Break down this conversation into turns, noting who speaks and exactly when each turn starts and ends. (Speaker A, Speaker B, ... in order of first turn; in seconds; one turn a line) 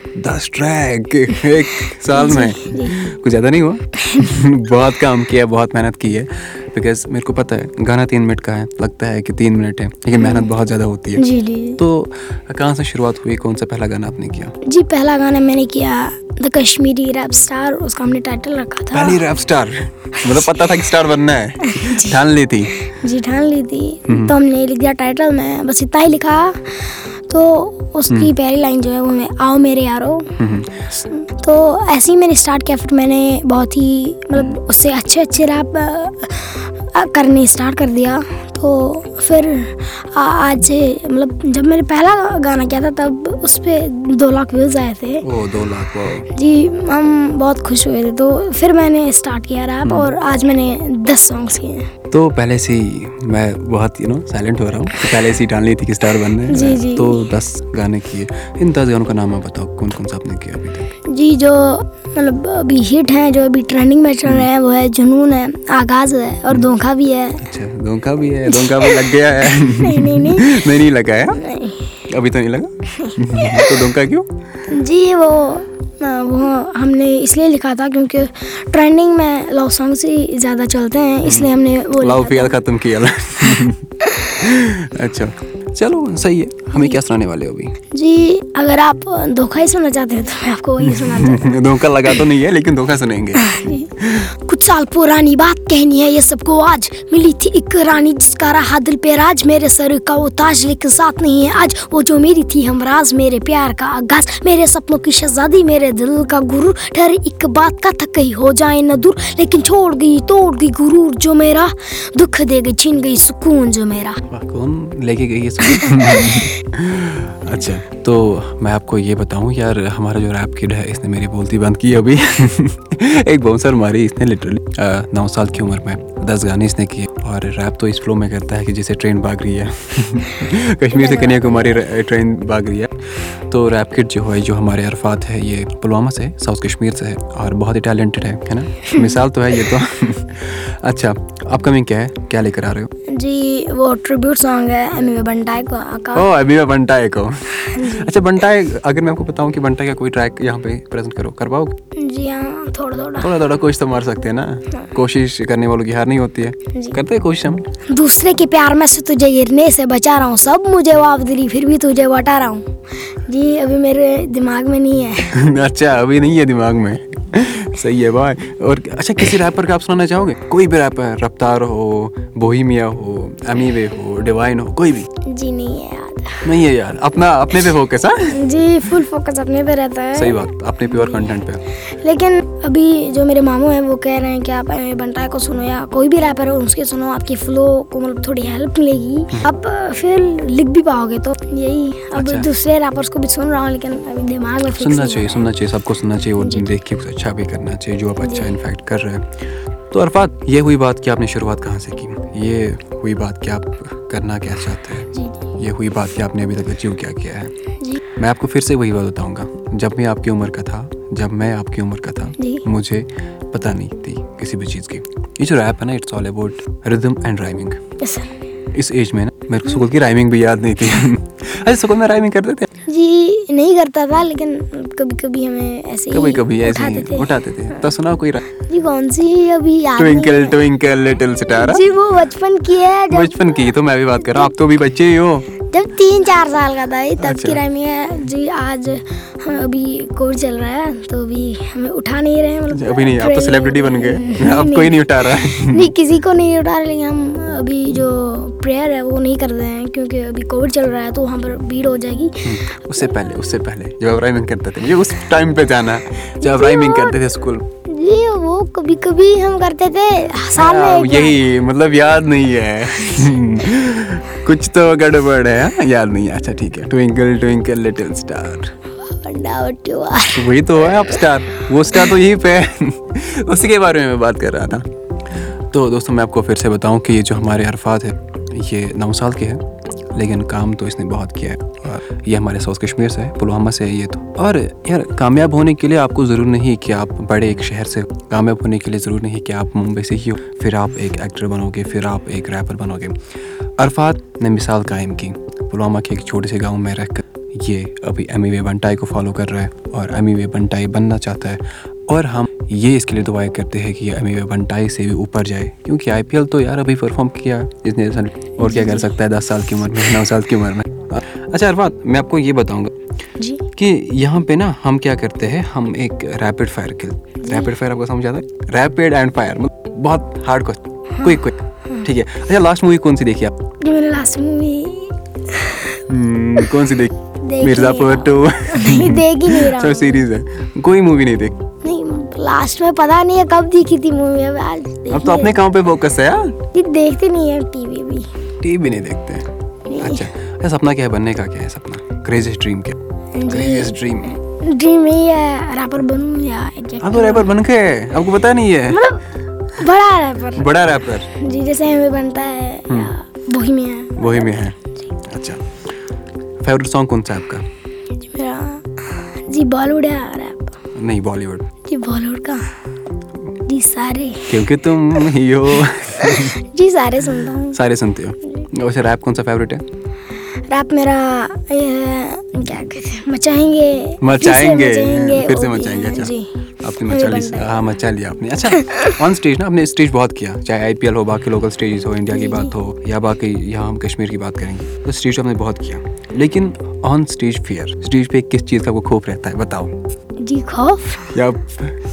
Speaker A: 0.2-14.6
Speaker B: 2.1-3.1
Speaker B: 4.0-4.4
Speaker B: 10.2-10.5
Speaker B: 11.2-11.8
Speaker B: 14.7-19.2
Speaker A: 18.9-22.8
Speaker B: 20.2-20.6
Speaker B: 21.6-22.2
Speaker B: 22.8-30.3
Speaker A: 24.1-24.3
Speaker A: 30.4-30.9
Speaker B: 31.0-45.3
Speaker A: 45.2-46.3
Speaker B: 46.3-51.9
Speaker A: 49.8-50.1
Speaker A: 52.1-60.9
Speaker B: 56.4-57.2
Speaker B: 61.1-67.5
Speaker A: 67.4-71.4
Speaker B: 68.5-70.7
Speaker B: 71.3-72.0
Speaker A: 72.1-74.3
Speaker B: 72.9-73.9
Speaker B: 74.7-82.6
Speaker A: 81.2-83.8
Speaker B: 84.0-84.5
Speaker A: 84.4-87.8
Speaker B: 87.9-91.7
Speaker A: 90.8-94.3
Speaker B: 93.4-114.2
Speaker A: 114.3-142.9
Speaker B: 115.8-116.5
Speaker B: 130.9-131.8
Speaker B: 138.9-139.2
Speaker B: 143.1-146.3
Speaker A: 146.1-151.8
Speaker B: 147.8-148.1
Speaker B: 152.0-153.3
Speaker A: 153.2-157.6
Speaker B: 157.9-162.7
Speaker B: 163.3-165.4
Speaker A: 165.3-175.1
Speaker B: 175.2-176.5
Speaker A: 176.4-178.4
Speaker B: 178.3-180.4
Speaker A: 180.2-181.6
Speaker B: 181.8-195.5
Speaker A: 192.1-192.5
Speaker A: 194.7-207.5
Speaker B: 196.4-196.7
Speaker B: 198.2-198.5
Speaker B: 205.1-205.4
Speaker A: 208.2-217.8
Speaker B: 212.4-212.7
Speaker B: 218.0-218.4
Speaker A: 218.7-222.7
Speaker B: 222.9-227.4
Speaker A: 226.1-228.5
Speaker B: 228.7-230.6
Speaker A: 230.0-231.9
Speaker B: 231.6-233.7
Speaker A: 233.1-235.5
Speaker B: 235.7-252.5
Speaker A: 237.2-237.6
Speaker A: 242.7-245.9
Speaker A: 252.4-257.6
Speaker B: 256.4-257.2
Speaker B: 257.9-261.4
Speaker A: 260.6-268.7
Speaker B: 269.0-270.6
Speaker A: 270.3-274.9
Speaker A: 275.7-293.2
Speaker A: 293.8-312.9
Speaker B: 308.6-309.1
Speaker B: 313.4-313.6
Speaker A: 313.8-323.5
Speaker B: 317.4-317.7
Speaker B: 321.2-322.1
Speaker B: 323.8-326.0
Speaker A: 326.1-331.6
Speaker B: 327.4-330.3
Speaker B: 331.8-335.6
Speaker A: 335.1-336.6
Speaker B: 336.7-338.3
Speaker A: 338.6-343.0
Speaker B: 339.9-340.3
Speaker B: 343.3-347.5
Speaker A: 343.5-344.4
Speaker A: 347.0-349.1
Speaker B: 348.9-350.7
Speaker A: 350.5-351.3
Speaker B: 351.3-354.6
Speaker A: 354.2-355.6
Speaker A: 356.6-357.6
Speaker B: 358.2-360.7
Speaker A: 360.9-361.7
Speaker B: 361.9-362.7
Speaker B: 363.7-364.6
Speaker A: 364.5-366.6
Speaker B: 366.2-367.8
Speaker A: 367.7-369.8
Speaker B: 370.7-376.5
Speaker A: 374.2-390.0
Speaker B: 377.0-377.7
Speaker B: 382.4-382.7
Speaker B: 390.4-391.4
Speaker A: 391.3-392.0